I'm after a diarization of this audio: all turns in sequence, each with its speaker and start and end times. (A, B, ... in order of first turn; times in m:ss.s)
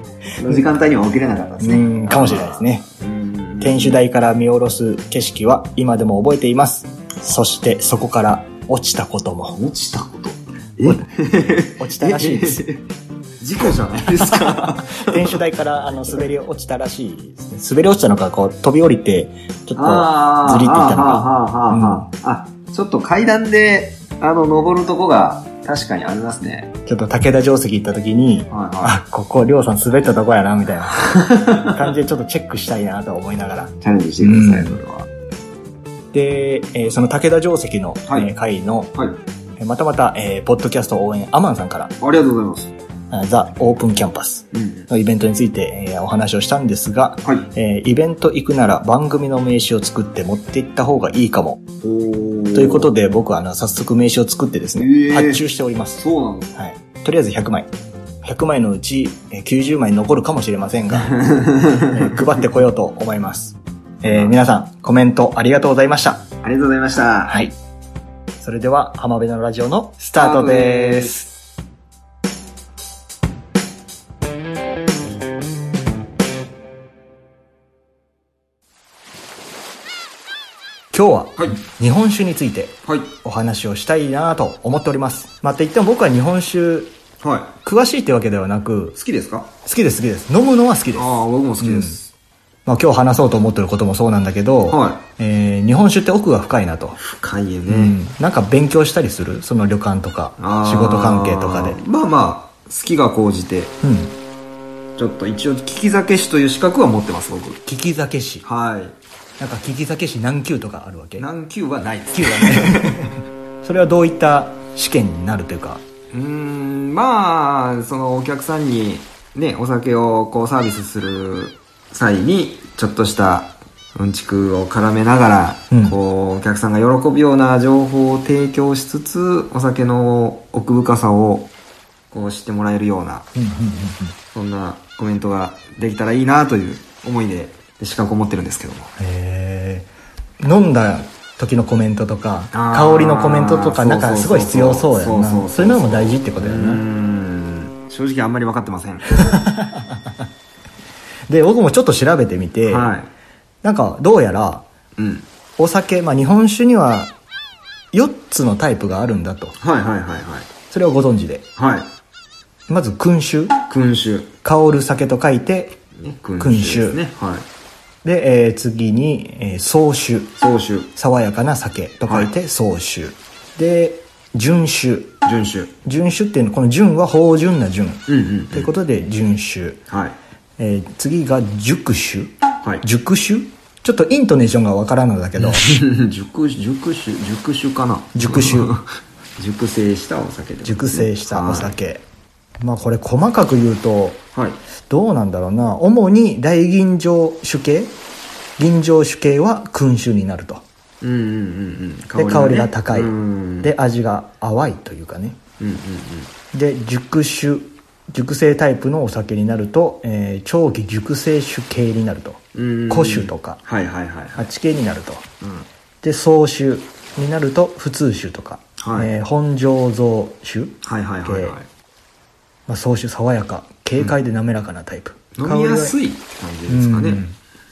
0:00.4-0:04.0 A
0:01.6-0:02.8 B
0:03.6-0:09.6 B
0:09.5-0:12.8 A
0:11.8-0:12.6 B
0:13.4-0:15.4 A
0:14.3-0:22.1 B
0:19.8-0:26.7 A
0:26.9-0:34.8 B
0:28.5-0:29.0 A
0:31.0-0:31.8 A
0:33.8-0:35.1 A
0:36.1-0:38.9 B
0:38.1-0:38.3 A
0:39.6-0:41.9 B
0:42.0-0:42.7 A
0:43.1-0:51.6 B
0:44.5-0:44.9 A
0:51.8-0:52.9 A
0:52.5-0:56.0 B
0:54.8-0:55.4 A
0:56.0-0:56.5 A
0:56.6-0:57.7 B
0:58.2-1:01.2 B
1:00.9-1:02.2 A
1:01.9-1:06.3 B
1:04.1-1:04.3 A
1:06.4-1:07.4 A
1:07.3-1:07.5 B
1:08.4-1:11.3 B
1:10.2-1:11.3 A
1:20.9-1:26.9 B
1:22.8-1:23.1 A
1:27.2-1:27.5 A
1:27.6-1:29.0 B
1:29.0-1:29.5 A
1:29.6-1:32.0 B
1:30.9-1:32.1 A
1:32.7-1:37.0 B
1:34.7-1:35.0 A
1:37.0-1:38.0 A
1:37.7-1:41.8 B
1:40.4-1:43.8 A
1:43.8-1:44.2 B
1:45.0-1:47.6 A
1:47.7-1:48.4 B
1:48.4-1:49.0 A
1:49.4-1:51.3 B
1:51.2-1:53.1 A
1:52.1-1:55.8 B
1:56.1-2:11.5 A
2:12.1-2:13.3 A
2:13.4-2:14.2 B
2:14.3-2:18.9 A
2:19.0-2:19.9 B
2:20.4-2:26.8 B
2:22.5-2:29.3 A
2:29.2-2:30.3 B
2:31.3-2:32.9 B
2:32.7-2:33.1 A
2:33.6-2:34.7 B
2:35.0-2:35.3 A
2:35.6-2:37.1 B
2:37.9-2:39.6 B
2:39.6-2:40.5 A
2:40.7-2:41.5 B
2:41.6-2:41.9 A
2:42.7-2:43.6 B
2:43.7-2:44.3 A
2:44.4-2:45.8 B
2:46.0-2:47.4 A
2:46.4-2:47.0 B
2:48.0-2:50.4 B
2:50.4-2:50.9 A
2:51.0-2:55.1 B
2:55.2-2:55.7 A
2:55.8-2:59.8 B
2:58.1-2:58.7 A
2:59.9-3:00.2 A
3:00.6-3:05.8 B
3:05.4-3:11.8 A
3:08.2-3:08.8 B
3:10.6-3:12.0 B
3:12.6-3:14.2 B
3:14.9-3:18.0 B
3:18.6-3:20.6 B
3:21.0-3:23.7 A
3:22.2-3:25.4 B
3:25.6-3:26.3 A
3:26.5-3:33.6 B
3:32.6-3:34.5 A
3:34.4-3:35.2 B
3:35.4-3:35.7 A
3:36.0-3:41.6 B
3:38.8-3:39.1 A
3:40.8-3:41.7 A
3:42.7-3:46.0 B
3:45.4-3:47.2 A
3:46.7-3:47.4 B